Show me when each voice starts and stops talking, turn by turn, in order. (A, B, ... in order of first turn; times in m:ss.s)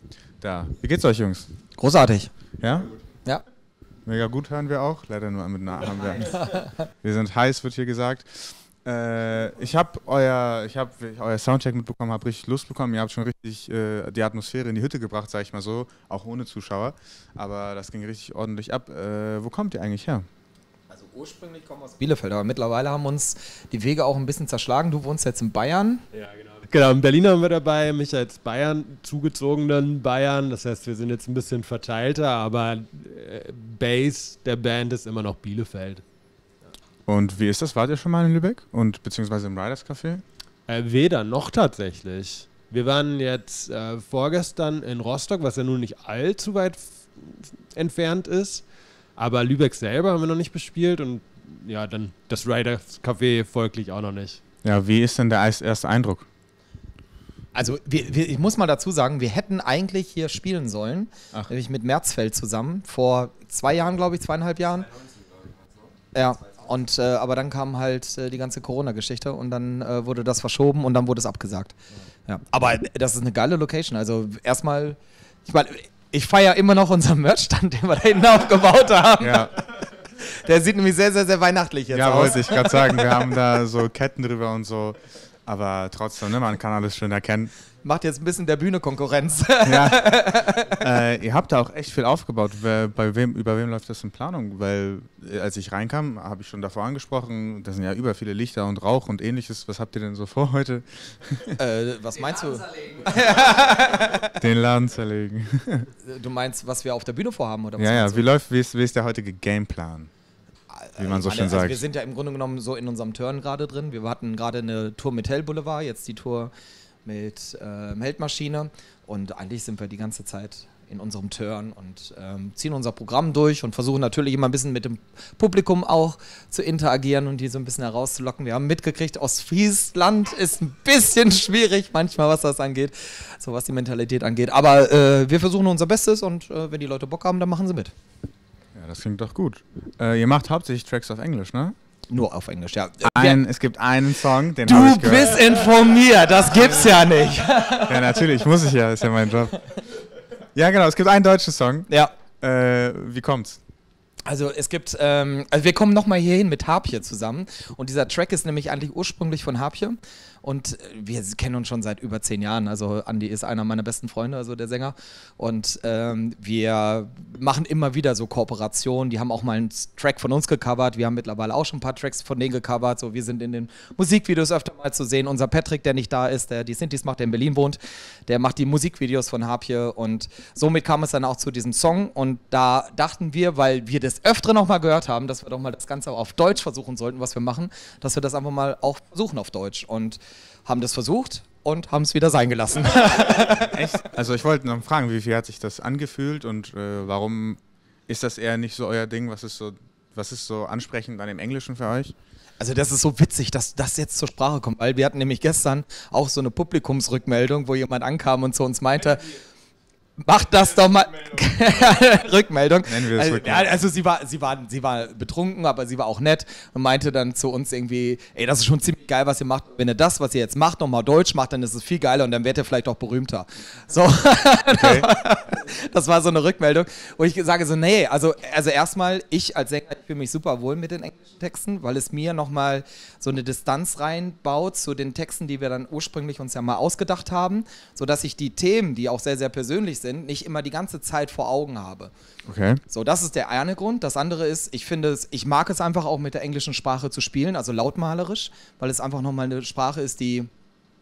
0:00.4-0:01.5 A
0:01.8-0:02.3 B
0:02.6-0:02.9 A
0:04.0-0:20.2 A
0:20.9-0:26.0 B
0:26.1-0:36.0 C
0:37.0-0:40.2 A
0:40.7-0:48.6 C
0:49.2-0:54.4 C
0:54.6-0:56.2 A
0:57.5-1:04.9 B
1:06.1-1:11.7 B
1:12.2-1:23.1 B
1:19.2-1:19.5 A
1:21.9-1:27.5 A
1:27.8-1:30.8 B
1:29.6-1:30.1 A
1:30.8-1:41.6 A
1:41.6-1:44.3 B
1:44.4-1:45.9 A
1:46.0-1:48.3 B
1:47.8-1:50.1 A
1:50.7-1:56.5 B
1:51.0-1:51.8 A
1:57.0-2:17.9 B
2:18.7-2:21.7 A
2:22.1-2:23.4 B
2:23.0-2:25.5 A
2:24.6-2:28.4 B
2:27.9-2:29.6 A
2:30.5-2:31.9 A
2:32.4-2:33.6 A
2:34.3-3:13.8 B
3:13.6-3:22.1 A
3:22.6-3:29.4 B
3:30.2-4:02.1 B
3:32.8-3:33.7 A
3:44.8-3:45.1 A
4:02.4-4:02.8 A
4:02.9-4:10.5 B